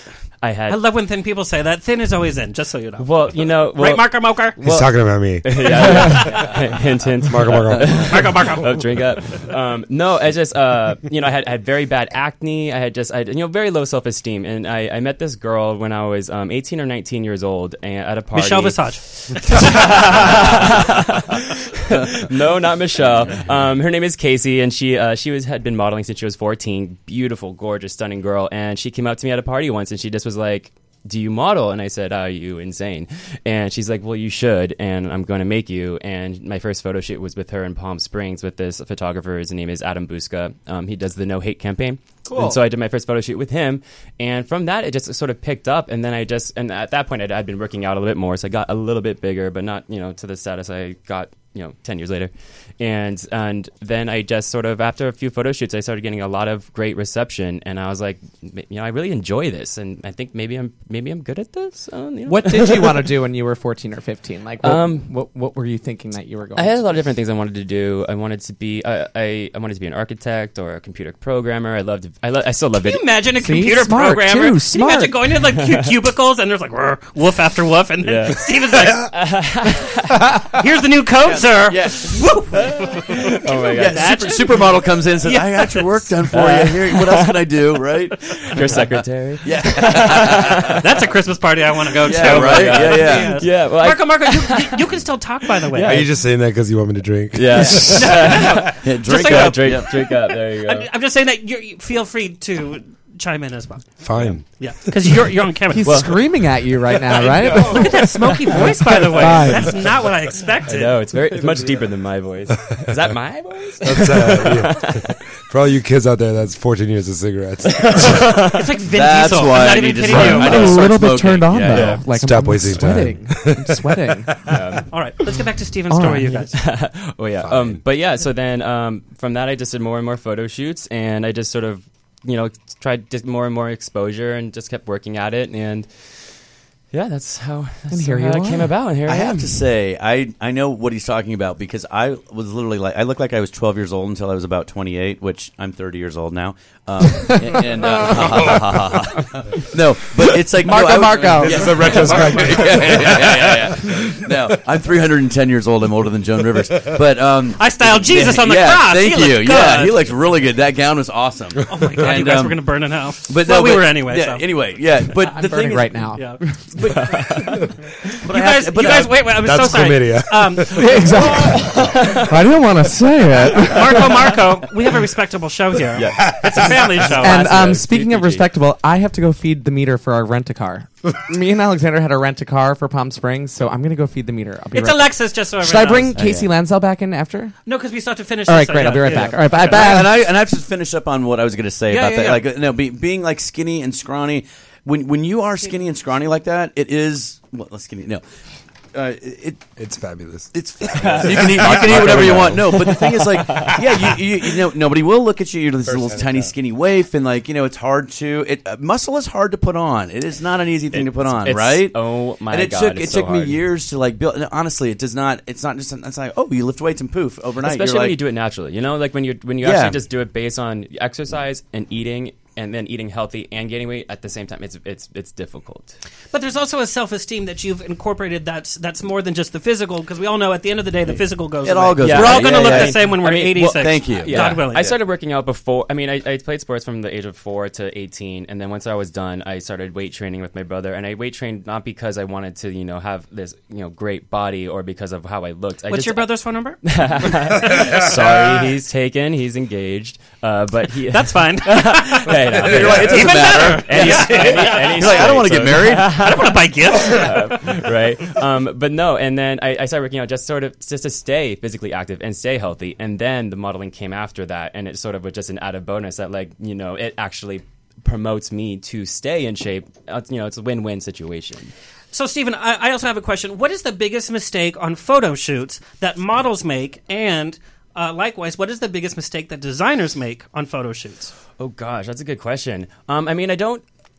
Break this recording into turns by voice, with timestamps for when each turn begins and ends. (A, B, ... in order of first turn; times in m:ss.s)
0:00.4-0:00.8 A
0:00.7-0:04.6 B
0:03.0-1:03.1 A
0:04.6-0:06.6 C
0:05.8-0:06.5 B
0:07.2-0:08.5 C
0:08.1-0:08.9 B
0:18.3-0:19.0 B
1:02.3-1:06.8 D
1:04.6-1:05.1 A
1:06.6-1:13.1 A
1:12.8-1:19.1 B
1:13.4-1:15.2 D
1:18.0-1:20.3 A
1:20.5-1:23.0 B
1:21.2-1:22.7 E
1:22.6-1:24.5 A
1:23.7-1:28.9 E
1:23.8-1:26.0 B
1:26.3-1:27.6 A
1:28.2-1:30.8 A
1:29.4-1:30.8 E
1:30.8-1:36.0 B
1:32.0-1:33.4 E
1:32.1-1:34.9 A
1:35.6-1:36.1 A
1:35.8-1:38.8 C
1:37.3-1:40.9 A
1:37.6-1:40.1 B
1:38.8-1:40.0 E
1:40.6-1:46.0 B
1:44.0-1:44.7 C
1:44.2-1:44.4 A
1:45.7-1:49.8 D
1:45.8-1:46.2 A
1:47.2-1:51.0 B
1:49.2-1:49.7 C
1:50.7-1:55.2 A
1:52.5-1:52.9 C
1:53.8-1:58.5 C
1:57.7-1:58.7 A
1:58.5-2:00.9 B
1:58.9-2:02.1 E
2:00.0-2:04.4 D
2:02.0-2:04.3 C
2:04.5-2:04.9 A
2:04.9-2:06.5 B
2:05.9-2:06.5 D
2:06.5-2:15.9 A
2:07.4-2:07.8 C
2:16.9-2:19.6 A
2:17.9-2:18.8 D
2:19.1-2:42.7 E
2:27.5-2:28.7 D
2:28.0-2:28.5 C
2:30.6-2:32.2 D
2:30.9-2:34.5 C
2:37.6-2:40.1 B
2:41.7-2:44.4 B
2:43.3-2:46.1 E
2:45.2-2:47.5 D
2:46.2-2:46.4 B
2:47.0-2:47.6 A
2:48.2-2:49.3 E
2:48.3-2:51.0 B
2:49.3-2:52.3 C
2:50.6-2:54.2 D
2:51.6-2:52.3 A
2:53.7-2:57.6 B
2:56.0-2:58.5 A
2:56.2-2:57.1 C
2:57.2-3:07.6 D
3:04.7-3:06.1 B
3:06.2-3:06.5 E
3:07.7-3:09.8 B
3:08.5-3:10.2 D
3:09.5-3:18.2 E
3:11.9-3:12.4 B
3:18.9-3:19.8 E
3:19.8-3:22.5 C
3:20.5-3:38.2 E
3:20.9-3:24.5 A
3:25.9-3:26.5 C
3:30.9-3:33.6 A
3:37.6-3:46.0 A
3:39.6-3:40.0 E
3:46.3-3:54.9 B
3:51.6-3:55.0 E
3:52.0-4:06.3 A
4:05.9-4:06.8 B
4:06.8-4:31.7 A
4:07.7-4:08.4 C
4:11.1-4:15.4 B
4:12.6-4:16.2 E
4:16.0-4:17.6 B
4:32.1-4:41.3 B
4:41.6-4:43.8 A